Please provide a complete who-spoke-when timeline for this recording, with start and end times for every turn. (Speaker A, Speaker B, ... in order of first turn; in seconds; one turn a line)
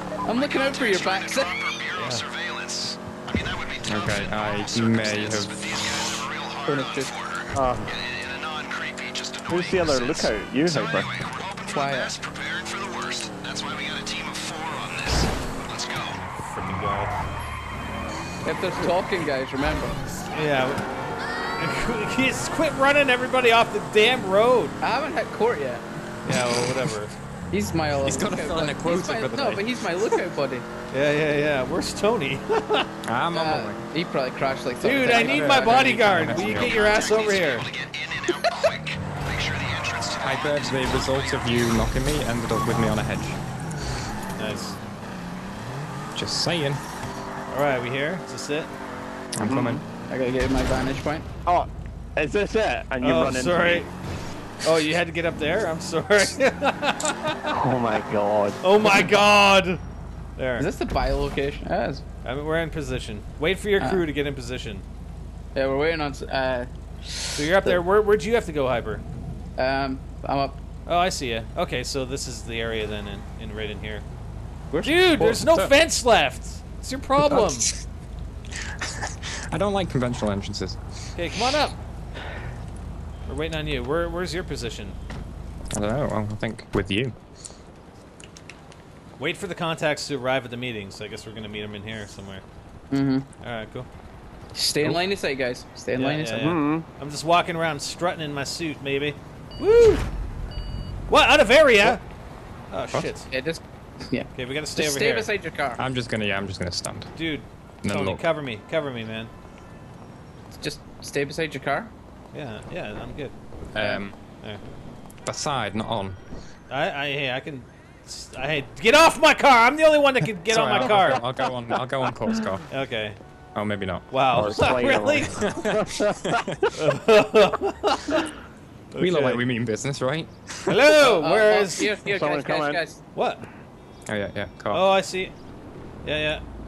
Speaker A: 0.2-1.7
Speaker B: 0.3-16.2
Speaker C: 1.9-2.2
Speaker D: 3.9-5.6
Speaker A: 6.7-7.1
Speaker E: 7.5-7.9
Speaker E: 9.5-11.1
Speaker A: 11.7-12.1
Speaker C: 16.0-17.1
Speaker A: 18.4-19.9
Speaker C: 20.2-20.9
Speaker C: 21.6-24.8
Speaker A: 24.8-25.8
Speaker C: 26.2-27.1
Speaker A: 27.5-30.7
Speaker D: 28.0-30.1
Speaker C: 30.9-32.9
Speaker D: 33.0-33.8
Speaker A: 33.3-36.4
Speaker C: 34.8-37.6
Speaker D: 35.1-36.8
Speaker B: 36.3-41.8
Speaker D: 40.2-43.4
Speaker C: 44.4-44.8
Speaker D: 46.1-46.8
Speaker C: 47.5-48.7
Speaker D: 49.4-49.8
Speaker E: 49.4-49.8
Speaker A: 50.1-51.3
Speaker E: 51.5-53.8
Speaker C: 53.0-53.9
Speaker C: 54.6-57.5
Speaker E: 57.5-59.1
Speaker C: 58.6-59.8
Speaker C: 60.4-60.7
Speaker A: 60.6-62.0
Speaker C: 62.2-64.8
Speaker A: 63.8-64.0
Speaker A: 65.5-67.7
Speaker C: 67.3-69.0
Speaker A: 69.6-70.6
Speaker C: 70.8-74.0
Speaker A: 74.7-75.4
Speaker C: 74.8-77.7
Speaker D: 75.2-75.7
Speaker D: 77.2-77.8
Speaker D: 78.8-80.8
Speaker C: 81.1-81.8
Speaker C: 83.2-85.0
Speaker D: 85.7-87.2
Speaker C: 89.2-92.4
Speaker A: 92.9-93.3
Speaker C: 93.4-93.9
Speaker A: 94.5-96.4
Speaker C: 95.9-100.0
Speaker E: 96.3-96.8
Speaker C: 101.1-102.0
Speaker C: 102.7-103.3
Speaker A: 103.3-105.8
Speaker C: 104.3-105.3
Speaker D: 105.8-107.1
Speaker C: 107.1-109.3
Speaker D: 107.8-108.2
Speaker A: 110.5-111.9
Speaker C: 112.3-113.3
Speaker D: 113.7-114.2
Speaker D: 115.2-116.2
Speaker C: 116.7-121.2
Speaker D: 120.4-122.7
Speaker C: 122.7-123.2
Speaker D: 123.5-124.3
Speaker C: 124.1-125.4
Speaker E: 124.3-126.6
Speaker D: 125.4-126.5
Speaker C: 126.7-128.3
Speaker C: 128.9-129.5
Speaker D: 129.0-130.8
Speaker C: 130.7-132.0
Speaker A: 131.0-133.0
Speaker E: 132.0-132.8
Speaker C: 133.1-133.4
Speaker D: 134.1-134.8
Speaker C: 134.7-135.3
Speaker C: 136.0-136.4